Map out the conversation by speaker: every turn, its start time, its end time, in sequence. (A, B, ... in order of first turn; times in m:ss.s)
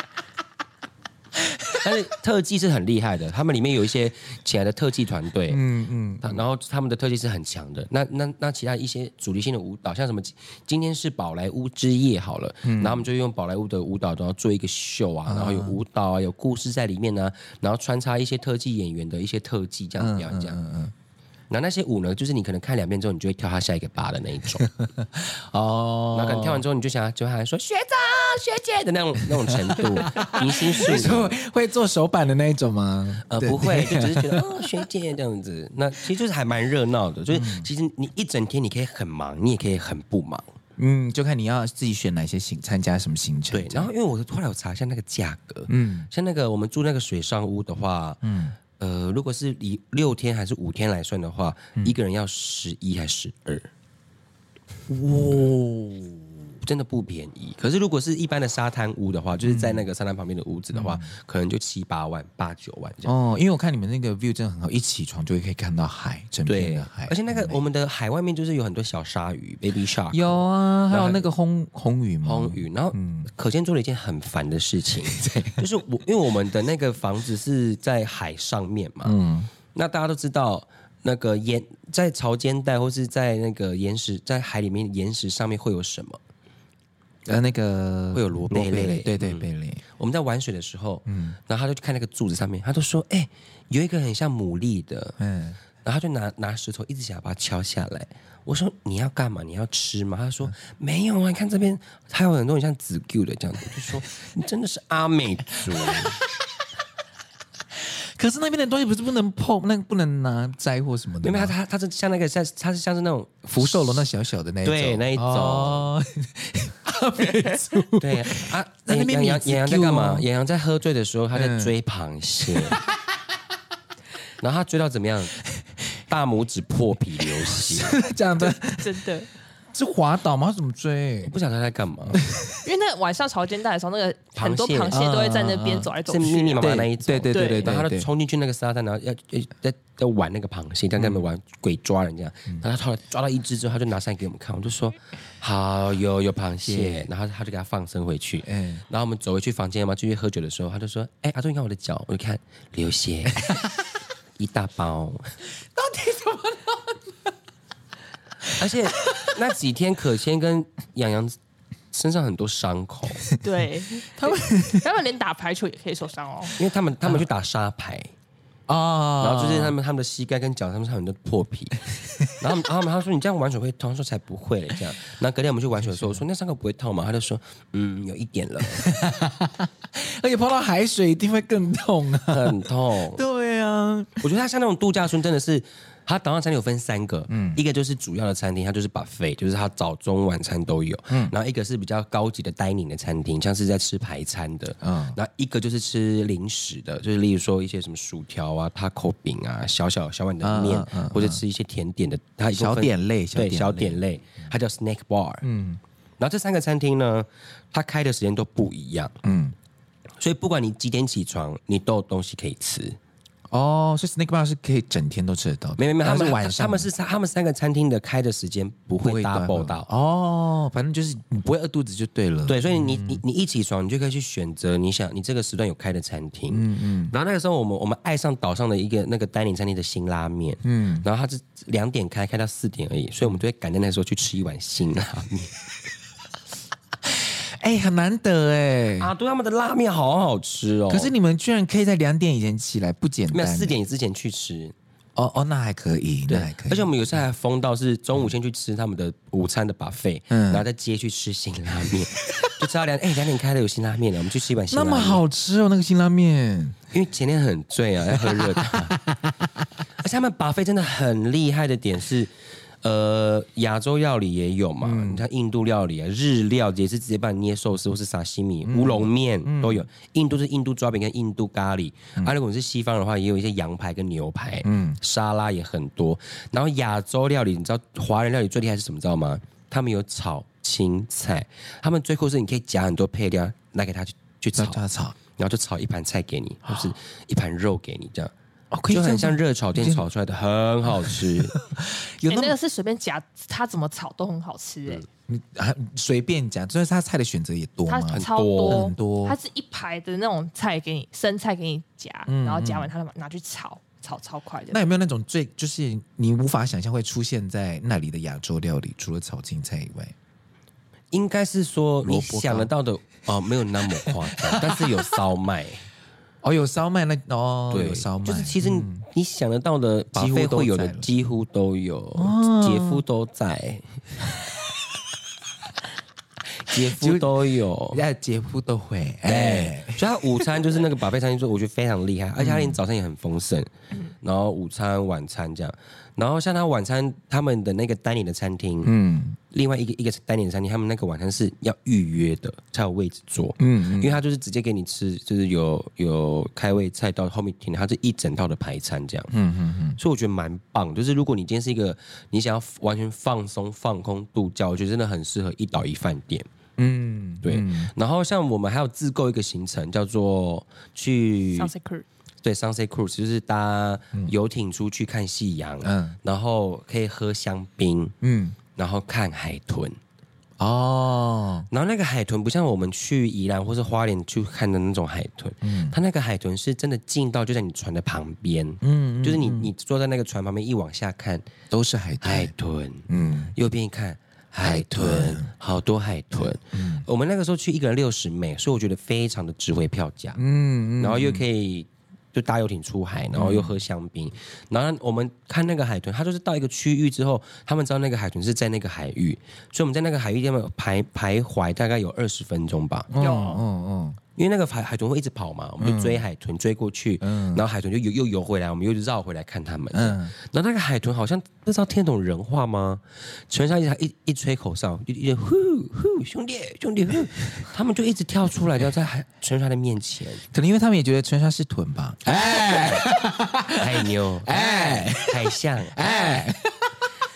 0:01.8-0:05.6 A
0:05.5-0:06.4 B
0:06.2-0:20.6 A
0:12.6-0:13.1 B
0:15.2-0:15.8 B
0:20.0-0:20.9 B
0:21.5-0:24.7 A
0:24.6-0:26.6 B
0:26.1-0:31.3 A
0:29.2-0:34.8 B
0:33.3-0:40.5 A
0:37.3-0:37.7 B
0:40.8-0:43.9 B
0:43.5-0:48.2 A
0:45.7-0:46.1 B
0:48.2-0:48.6 B
0:48.8-0:53.7 A
0:54.9-0:56.4 B
0:56.6-1:03.1 A
0:59.4-0:59.9 B
1:00.7-1:01.1 B
1:03.0-1:07.6 B
1:06.4-1:11.3 A
1:10.1-1:13.3 B
1:12.2-1:19.1 A
1:15.0-1:15.6 B
1:19.0-1:19.5 B
1:19.7-1:26.2 A
1:27.2-1:29.8 B
1:28.1-1:35.2 A
1:31.0-1:31.4 B
1:35.2-1:35.6 B
1:35.8-1:46.2 A
1:45.8-1:46.5 B
1:47.7-1:51.5 B
1:51.2-1:54.1 A
1:53.5-2:00.3 B
1:54.6-1:55.9 A
1:58.0-2:02.8 A
2:01.3-2:01.7 B
2:02.4-2:02.9 B
2:04.4-2:05.4 A
2:05.4-2:05.9 B
2:06.1-2:08.0 A
2:07.2-2:09.1 B
2:08.4-2:09.3 C
2:09.7-2:11.3 B
2:11.2-2:12.2 A
2:12.1-2:12.6 B
2:12.6-2:16.7 C
2:14.3-2:15.0 A
2:14.9-2:15.9 B
2:16.0-2:33.6 A
2:16.6-2:18.1 B
2:17.3-2:17.7 C
2:21.0-2:21.2 B
2:26.6-2:27.1 B
2:28.4-2:28.8 B
2:33.4-2:33.8 B
2:34.4-2:35.3 A
2:35.7-2:37.1 B
2:38.4-2:39.3 B
2:38.6-2:41.4 A
2:41.9-2:43.2 A
2:43.4-2:46.6 C
2:44.1-2:44.8 B
2:46.6-2:48.1 A
2:48.7-2:49.7 B
2:49.2-2:51.8 A
2:52.3-2:58.8 A
2:55.8-2:56.2 B
2:58.7-3:04.2 B
3:02.3-3:03.2 A
3:04.2-3:25.4 A
3:07.3-3:07.6 B
3:11.1-3:11.3 B
3:14.8-3:15.2 B
3:20.4-3:21.4 B
3:22.5-3:24.0 B
3:25.4-3:25.8 B
3:26.2-3:29.2 A
3:29.2-3:29.5 B
3:30.2-3:33.0 A
3:33.5-3:36.9 B
3:35.8-3:39.9 A
3:39.0-3:43.2 B
3:42.5-3:55.6 A
3:46.5-3:47.1 B
3:50.6-3:51.0 B
3:57.1-3:59.1 B
3:59.0-4:01.1 A
4:00.9-4:03.7 B
4:03.3-4:04.7 A
4:05.2-4:07.0 B
4:06.3-4:15.2 A
4:10.3-4:10.6 B
4:14.7-4:16.8 B
4:16.9-4:19.0 A
4:18.1-4:19.6 B
4:20.0-4:22.3 A
4:22.8-4:44.8 A
4:24.8-4:25.2 B
4:28.6-4:29.8 B
4:34.6-4:35.0 B
4:44.6-4:45.2 B
4:45.4-4:48.3 A
4:48.7-4:50.0 B
4:48.9-4:51.5 A
4:51.0-4:52.5 B
4:52.2-4:55.0 C
4:55.3-4:59.4 B
4:57.9-5:04.8 C
4:58.1-4:58.8 A
5:02.3-5:02.9 B
5:04.7-5:10.1 B
5:11.1-5:15.8 A
5:12.0-5:12.7 B
5:14.0-5:14.9 B
5:16.4-5:19.0 B
5:17.7-5:24.0 A
5:20.1-5:21.1 B
5:22.2-5:23.0 B
5:26.6-5:28.0 A
5:26.7-5:27.4 B
5:27.9-5:30.5 B
5:29.2-5:33.7 A
5:32.4-5:32.8 B
5:34.2-5:38.9 A
5:38.8-5:39.4 B
5:39.5-5:49.3 A
5:43.6-5:44.2 B
5:49.3-5:50.0 B
5:50.0-5:56.4 A
5:56.8-5:57.9 B
5:57.4-6:01.7 A
6:01.6-6:02.0 C
6:02.4-6:08.1 A
6:05.8-6:06.2 B
6:08.2-6:08.6 B
6:08.8-6:10.0 A
6:10.6-6:11.7 B
6:11.7-6:21.4 A
6:15.6-6:16.0 B
6:18.8-6:19.7 B
6:21.7-6:22.5 B
6:22.2-6:30.4 A
6:23.1-6:23.5 B
6:24.6-6:25.5 B
6:26.3-6:27.0 B
6:30.4-6:31.4 B
6:31.0-6:43.1 A
6:33.3-6:33.8 B
6:43.1-6:44.2 B
6:43.2-6:43.6 C
6:44.4-7:00.4 A
6:45.8-6:46.2 B
6:47.2-6:47.6 B
6:49.9-6:50.3 B
7:00.5-7:07.0 B
7:03.8-7:06.3 A